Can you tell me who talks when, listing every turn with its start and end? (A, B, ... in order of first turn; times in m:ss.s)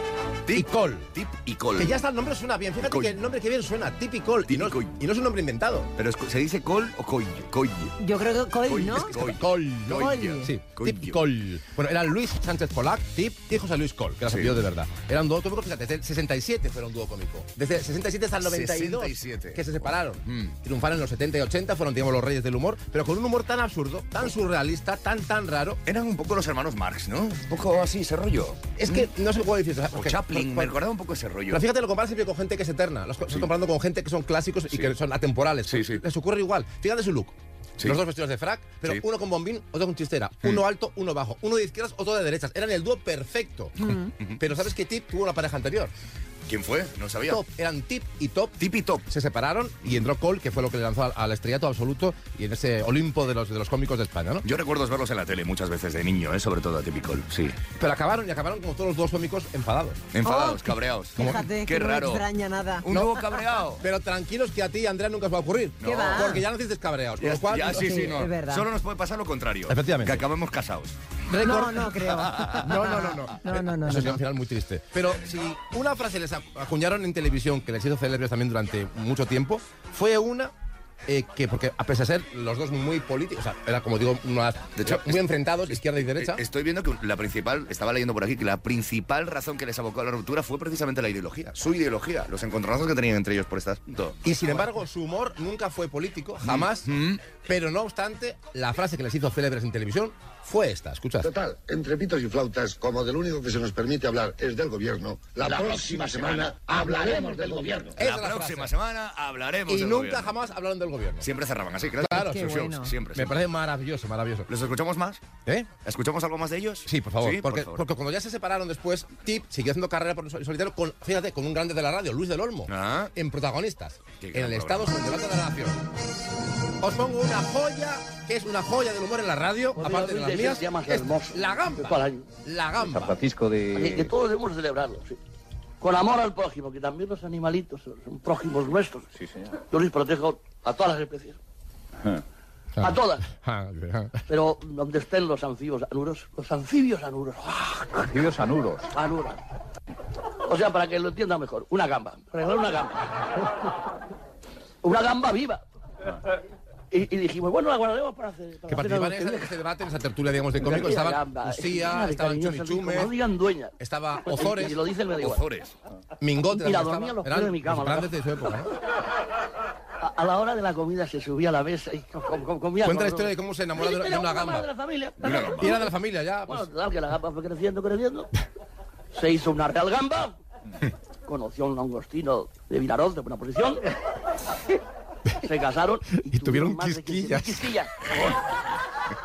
0:00.4-0:02.0 A
0:00.5-0:01.1 B
0:01.8-0:05.9 B
0:02.9-0:03.2 A
0:04.5-0:04.9 A
0:06.0-0:08.0 A
0:08.0-0:09.2 C
0:08.7-0:11.2 A
0:09.2-0:25.8 B
0:10.0-0:10.5 C
0:14.3-0:14.6 A
0:18.4-0:20.6 A
0:25.9-0:29.1 A
0:28.8-0:30.8 B
0:30.0-0:31.6 A
0:31.5-0:43.8 B
0:35.7-0:36.0 A
0:43.8-0:44.1 C
0:44.4-0:45.9 B
0:46.5-0:47.4 A
0:47.3-0:54.4 B
0:48.6-0:49.0 A
0:54.4-0:57.6 A
0:57.8-1:00.0 B
1:00.1-1:02.2 A
1:00.2-1:02.9 C
1:02.8-1:03.8 A
1:02.9-1:03.2 B
1:03.8-1:07.9 B
1:05.8-1:06.4 A
1:05.8-1:06.4 C
1:07.2-1:11.0 A
1:07.7-1:08.7 C
1:09.7-1:10.2 B
1:11.3-1:14.2 C
1:11.3-1:11.9 B
1:11.9-1:12.9 A
1:12.4-1:20.5 B
1:21.1-1:26.4 B
1:24.8-1:34.3 A
1:34.2-1:36.9 B
1:36.4-1:37.2 A
1:37.4-1:41.3 B
1:41.2-1:48.0 D
1:48.0-1:48.7 B
1:48.0-1:50.3 A
1:49.7-1:51.3 B
1:51.2-1:53.4 A
1:52.0-1:52.6 B
1:52.1-1:52.9 C
1:53.1-1:54.5 B
1:54.5-1:55.2 A
1:55.8-1:57.8 A
1:56.9-2:05.8 B
2:02.7-2:03.1 A
2:04.2-2:05.0 A
2:06.8-2:13.2 B
2:09.8-2:12.3 E
2:12.8-2:14.1 F
2:13.7-2:15.2 E
2:15.8-2:19.1 E
2:19.2-2:19.6 F
2:19.6-2:21.4 E
2:22.8-2:24.2 B
2:22.8-2:23.3 E
2:24.3-2:28.1 E
2:28.1-2:28.9 F
2:28.9-2:29.4 E
2:30.5-2:33.1 E
2:34.8-2:35.6 E
2:36.9-2:39.5 E
2:38.7-2:43.1 B
2:40.6-2:45.4 E
2:43.8-2:44.8 B
2:45.2-2:45.7 A
2:46.2-2:48.7 B
2:46.5-2:48.1 E
2:50.0-2:55.9 E
2:52.8-2:54.7 B
2:55.2-2:55.7 A
2:55.4-2:56.7 B
2:56.5-2:58.3 E
2:59.1-3:00.4 E
3:01.3-3:03.8 E
3:05.4-3:08.3 E
3:06.1-3:07.7 B